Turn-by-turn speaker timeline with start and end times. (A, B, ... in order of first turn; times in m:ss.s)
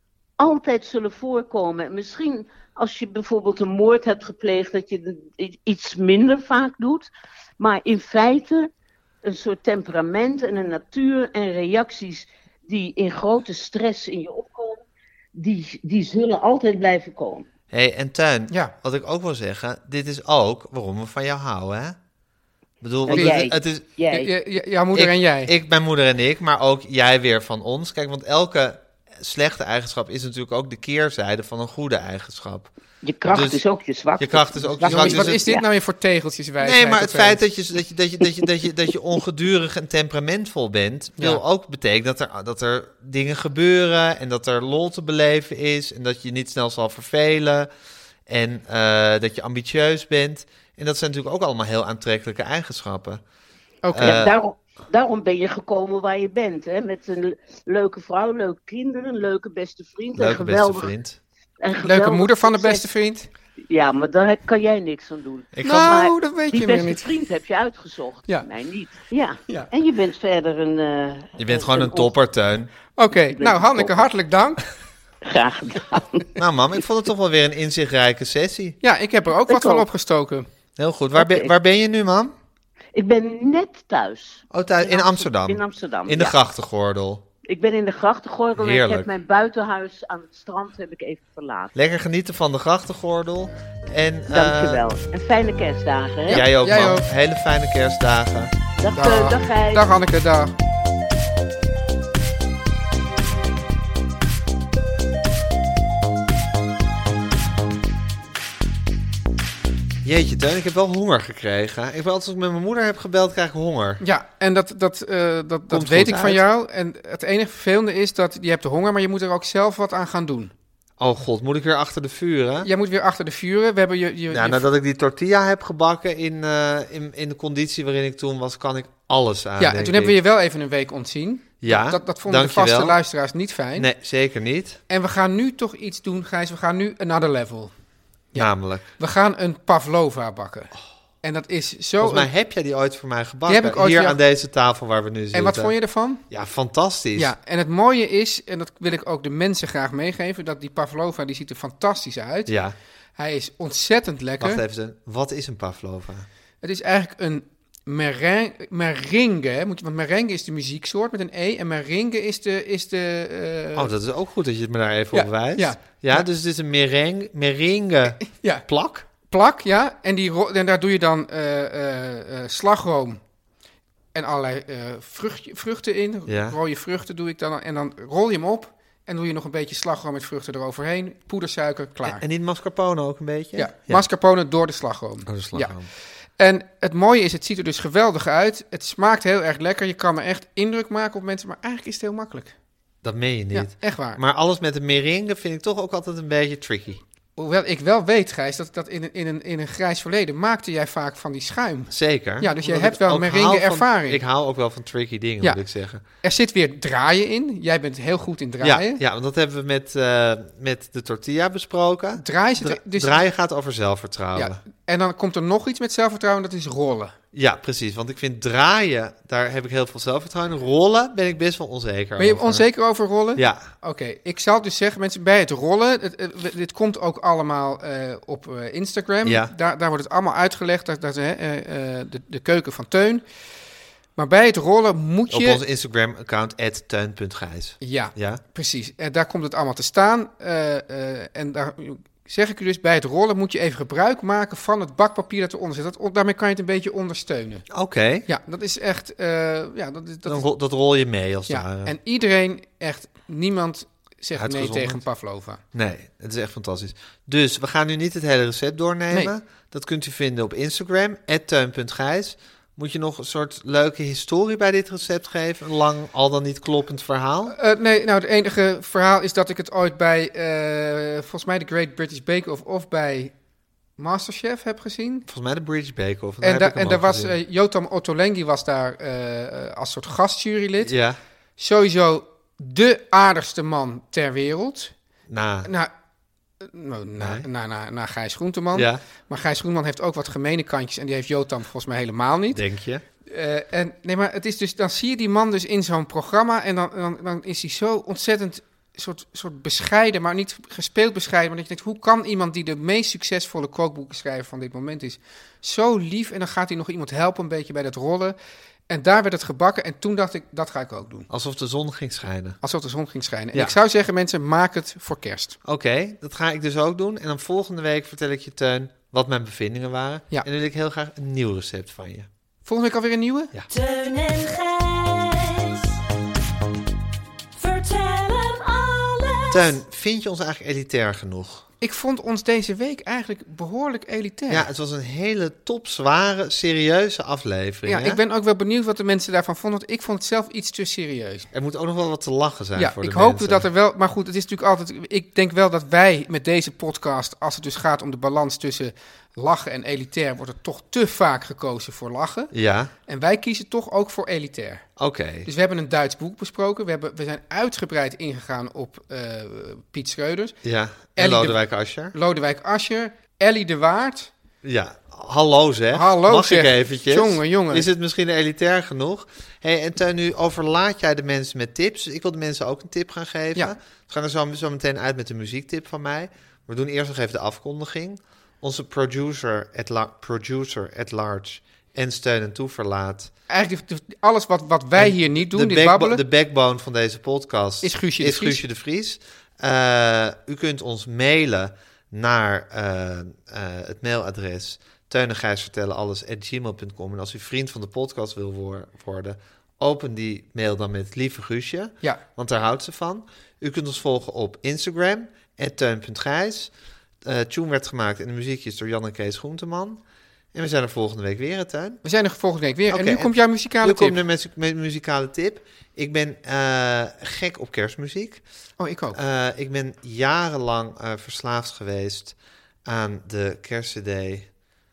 0:00.4-0:08.7 A
0:09.2-0:17.4 A
0:17.7-0:22.0 B
0:22.8-0:24.0 B
0:23.1-0:24.3 A
0:23.1-0:23.4 C
0:24.1-0:25.5 C
0:24.9-0:32.7 B
0:33.0-0:35.6 A
0:33.3-0:33.6 B
0:34.2-0:35.4 B
0:34.8-0:37.4 C
0:36.6-0:47.7 B
0:48.3-0:53.2 B
0:53.8-0:54.2 C
0:53.9-0:54.3 B
0:54.0-1:00.9 A
1:00.1-1:01.2 B
1:01.6-1:02.9 A
1:01.8-1:03.3 C
1:03.7-1:12.1 A
1:05.5-1:06.0 B
1:05.6-1:07.1 C
1:11.4-1:12.7 B
1:13.0-1:14.6 C
1:13.3-1:14.0 A
1:15.2-1:16.3 A
1:16.4-1:18.8 B
1:18.8-1:20.5 C
1:19.5-1:19.8 A
1:20.8-1:22.3 B
1:21.2-1:21.5 A
1:22.9-1:26.4 A
1:24.5-1:27.2 B
1:27.4-1:31.7 A
1:28.6-1:29.1 B
1:31.8-1:34.8 B
1:34.3-1:36.4 A
1:36.3-1:38.5 B
1:36.3-1:37.1 C
1:38.8-1:39.9 A
1:39.0-1:40.6 C
1:50.0-1:54.0 B
1:54.0-2:00.5 C
1:55.7-1:56.4 B
2:01.0-2:02.7 B
2:02.6-2:04.7 C
2:04.3-2:10.1 B
2:09.6-2:13.9 C
2:11.6-2:13.0 B
2:13.8-2:14.8 B
2:14.9-2:17.7 C
2:18.3-2:22.3 C
2:18.4-2:18.8 B
2:22.0-2:25.8 B
2:23.5-2:24.2 C
2:25.3-2:26.2 C
2:26.3-2:27.3 B
2:27.2-2:32.5 C
2:32.5-2:32.8 B
2:33.2-2:34.6 C
2:34.4-2:36.3 B
2:36.6-2:43.9 C
2:43.8-2:49.1 B
2:45.1-2:46.3 C
2:48.2-2:48.7 C
2:49.2-2:53.2 C
2:54.1-3:02.2 C
2:56.3-2:56.6 B
3:02.0-3:04.0 B
3:03.6-3:05.8 C
3:05.3-3:05.9 B
3:06.4-3:12.6 C
3:13.0-3:17.0 B
3:13.5-3:14.2 C
3:17.4-3:24.2 C
3:21.9-3:26.0 B
3:25.4-3:29.0 C
3:28.6-3:34.6 B
3:32.2-3:33.2 C
3:34.4-3:37.1 C
3:37.3-3:42.7 B
3:42.2-3:53.2 C
3:43.4-3:43.7 B
3:49.2-3:49.5 B
3:54.2-3:55.6 C
3:55.3-3:58.4 B
3:57.8-4:07.7 C
4:07.7-4:08.3 B
4:08.3-4:10.4 C
4:10.3-4:12.0 B
4:11.5-4:15.6 C
4:14.4-4:15.0 B
4:15.7-4:27.6 B
4:27.5-4:33.3 C
4:34.0-4:35.3 C
4:35.3-4:37.4 B
4:36.4-4:40.9 C
4:40.8-4:41.2 B
4:41.6-4:44.9 C
4:45.3-4:45.7 B
4:45.6-4:45.9 C
4:46.6-4:52.6 C
4:47.2-4:47.4 B
4:48.7-4:49.0 B
4:52.5-4:53.0 B
4:53.3-5:08.4 C
5:08.9-5:11.3 C
5:11.3-5:12.6 B
5:12.6-5:15.6 C
5:15.6-5:22.3 B
5:22.6-5:23.5 C
5:23.7-5:26.0 D
5:27.5-5:29.8 D
5:29.5-5:31.7 B
5:31.8-5:34.7 C
5:34.5-5:38.2 B
5:37.9-5:41.5 C
5:41.5-5:43.7 B
5:42.8-5:52.5 C
5:52.5-5:52.9 B
5:53.1-5:54.9 C
5:55.0-5:55.5 B
5:55.4-6:00.6 C
6:00.6-6:02.1 B
6:01.2-6:04.3 C
6:04.6-6:23.3 B
6:05.9-6:07.9 C
6:23.5-6:26.2 C
6:25.0-6:46.7 B
6:27.8-6:28.6 C
6:47.2-6:50.0 B
6:50.5-6:52.0 B
6:52.0-6:54.2 C
6:52.9-6:58.4 B
6:58.8-6:59.2 C
6:59.1-7:02.4 B
7:02.9-7:04.5 B